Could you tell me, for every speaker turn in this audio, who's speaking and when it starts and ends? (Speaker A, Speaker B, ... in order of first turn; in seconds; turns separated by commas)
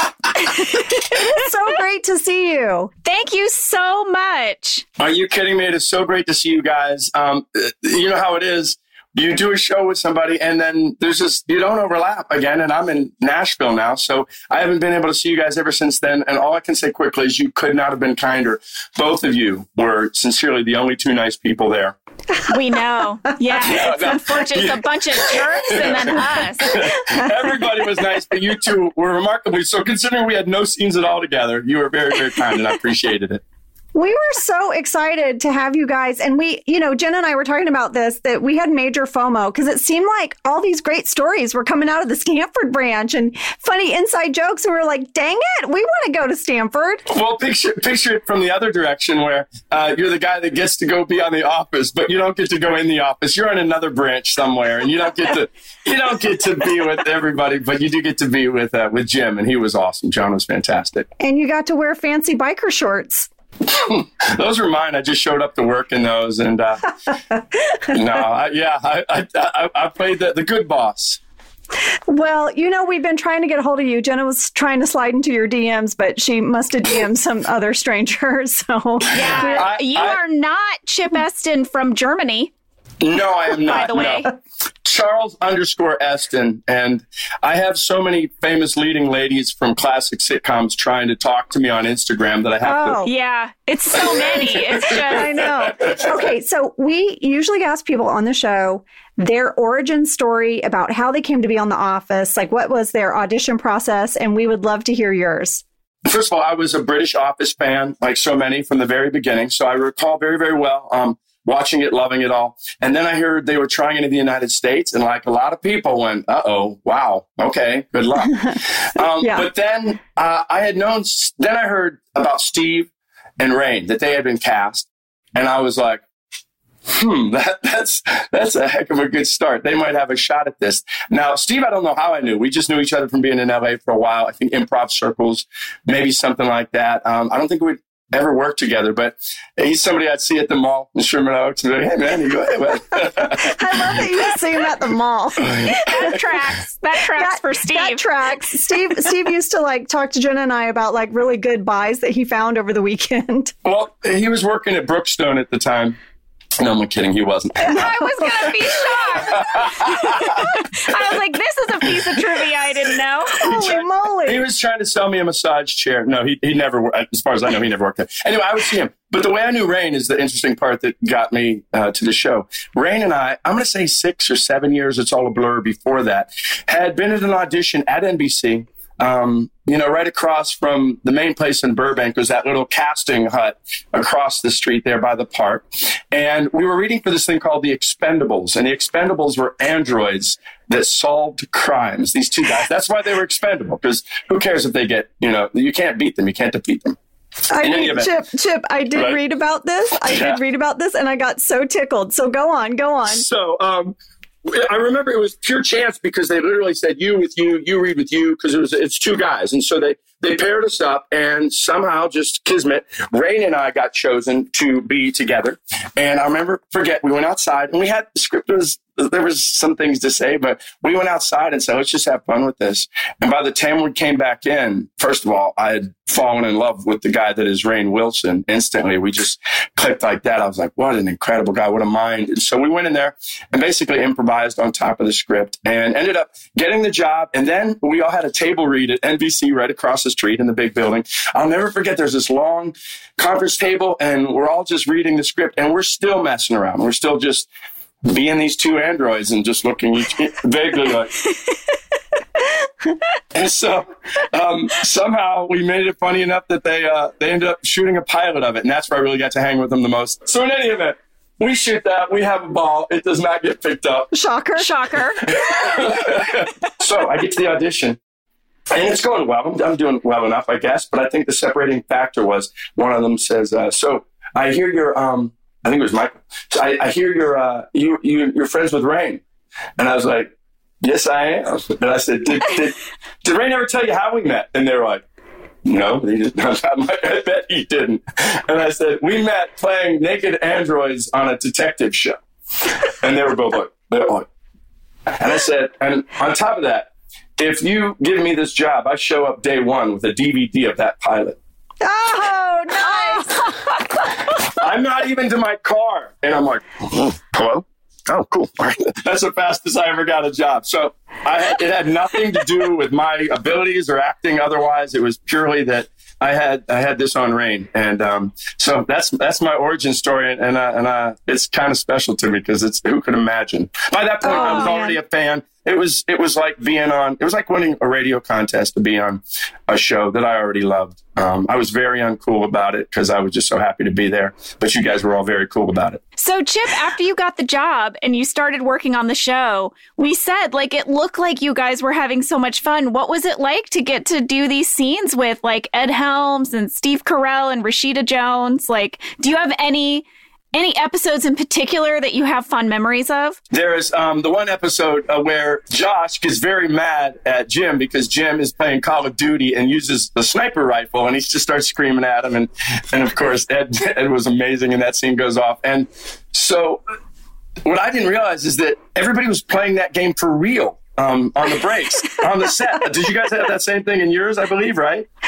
Speaker A: 0.3-1.4, Speaker B: 0.9-2.9, Speaker A: 3.0-4.8, Speaker C: 5.0-21.9, Speaker A: 22.4-26.8, Speaker C: 23.5-33.4, Speaker B: 33.9-47.0, Speaker C: 47.1-61.0, Speaker B: 61.2-63.3, Speaker C: 63.7-66.9, Speaker C: 67.9-71.2, Speaker B: 72.1-79.7, Speaker A: 79.1-82.5, Speaker C: 79.2-80.2, Speaker C: 83.0-84.3, Speaker A: 83.6-84.3, Speaker C: 84.8-93.0, Speaker B: 92.6-93.1, Speaker A: 93.0-95.5, Speaker C: 94.1-96.0, Speaker B: 94.1-105.6, Speaker C: 106.0-126.0, Speaker B: 119.2-119.5, Speaker C: 126.9-144.0, Speaker B: 142.9-145.8, Speaker C: 145.4-146.2, Speaker A: 145.7-148.0, Speaker B: 147.2-153.5, Speaker C: 153.6-156.0, Speaker C: 156.6-157.9, Speaker A: 157.7-163.5, Speaker B: 157.7-158.4, Speaker C: 159.2-161.1, Speaker C: 163.3-196.9, Speaker B: 163.4-164.4, Speaker B: 197.5-203.2, Speaker C: 197.6-198.1, Speaker C: 200.0-200.4, Speaker C: 203.1-247.5, Speaker C: 248.0-251.2, Speaker C: 253.3-264.1, Speaker B: 264.1-264.7, Speaker A: 264.6-265.6, Speaker C: 265.3-268.0, Speaker C: 268.7-279.2, Speaker C: 279.8-280.3, Speaker C: 280.8-285.0, Speaker C: 285.6-292.2, Speaker C: 292.8-294.2, Speaker C: 295.1-301.4, Speaker B: 301.8-303.5, Speaker A: 302.8-304.1, Speaker C: 304.4-336.0, Speaker B: 324.2-325.0, Speaker A: 324.3-324.8, Speaker A: 336.2-353.4, Speaker C: 353.5-366.8, Speaker C: 367.6-375.1